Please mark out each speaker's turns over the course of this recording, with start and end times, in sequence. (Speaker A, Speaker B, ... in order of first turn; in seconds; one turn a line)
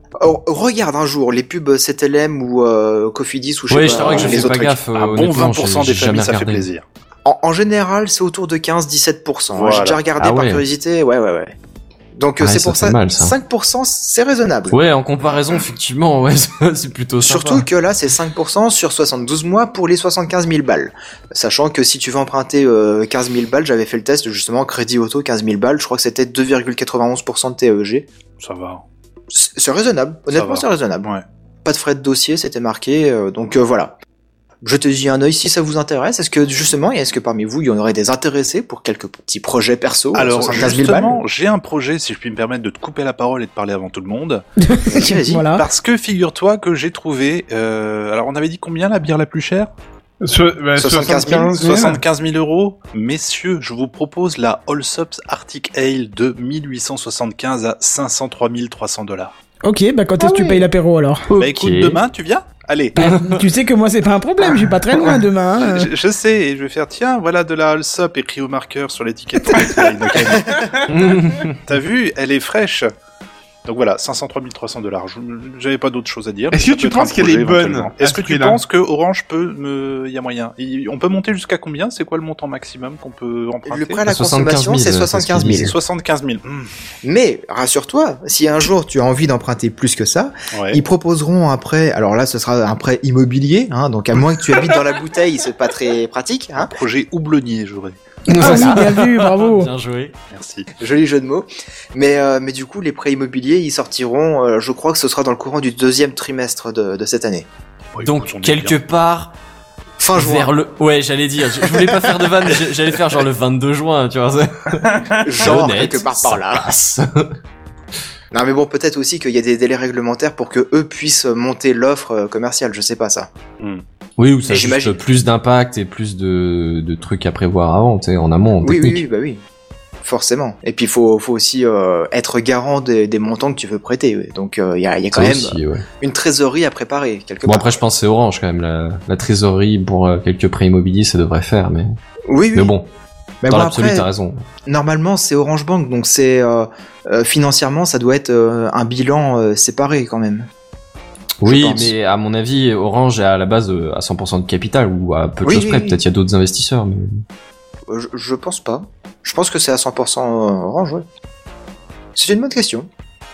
Speaker A: 0.2-4.8
Speaker B: 3.7-6.7
Speaker C: 3.9-6.8
Speaker A: 7.2-11.6
Speaker C: 9.5-10.0
Speaker B: 10.2-10.6
Speaker A: 12.2-14.8
Speaker B: 12.4-13.3
Speaker B: 14.7-17.7
Speaker A: 17.2-28.1
Speaker C: 28.4-28.8
Speaker A: 29.3-31.1
Speaker C: 30.3-31.2
Speaker A: 31.6-33.9
Speaker A: 34.6-41.2
Speaker C: 40.1-44.4
Speaker D: 44.6-45.7
Speaker A: 44.9-45.5
Speaker C: 45.5-49.7
Speaker E: 50.2-52.0
Speaker A: 50.8-51.6
Speaker C: 51.6-59.3
Speaker D: 59.7-61.3
Speaker B: 61.3-62.0
Speaker C: 61.4-62.9
Speaker D: 63.0-65.9
Speaker B: 63.0-63.3
Speaker C: 65.1-70.8
Speaker E: 69.6-70.8
Speaker B: 70.9-71.6
Speaker C: 71.7-72.9
Speaker C: 73.7-84.0
Speaker E: 76.5-78.6
Speaker A: 83.7-85.7
Speaker B: 84.1-85.7
Speaker C: 85.6-86.7
Speaker A: 87.0-96.7
Speaker C: 90.5-90.8
Speaker C: 96.6-98.0
Speaker D: 98.3-99.7
Speaker B: 98.3-100.1
Speaker C: 100.3-100.7
Speaker A: 100.8-107.5
Speaker C: 107.9-108.8
Speaker B: 108.0-109.3
Speaker A: 110.0-110.5
Speaker B: 110.1-117.3
Speaker A: 111.6-112.3
Speaker E: 114.8-115.4
Speaker A: 115.2-116.7
Speaker A: 118.3-123.3
Speaker B: 124.2-129.0
Speaker A: 124.5-125.0
Speaker A: 128.6-129.4
Speaker A: 130.0-137.8
Speaker B: 135.1-135.8
Speaker B: 137.5-142.0
Speaker A: 142.3-142.7
Speaker B: 142.6-142.9
Speaker A: 143.4-144.1
Speaker B: 143.5-144.4
Speaker A: 144.7-150.5
Speaker B: 151.4-157.2
Speaker A: 151.4-151.9
Speaker A: 155.4-156.0
Speaker A: 157.9-161.1
Speaker A: 162.2-162.9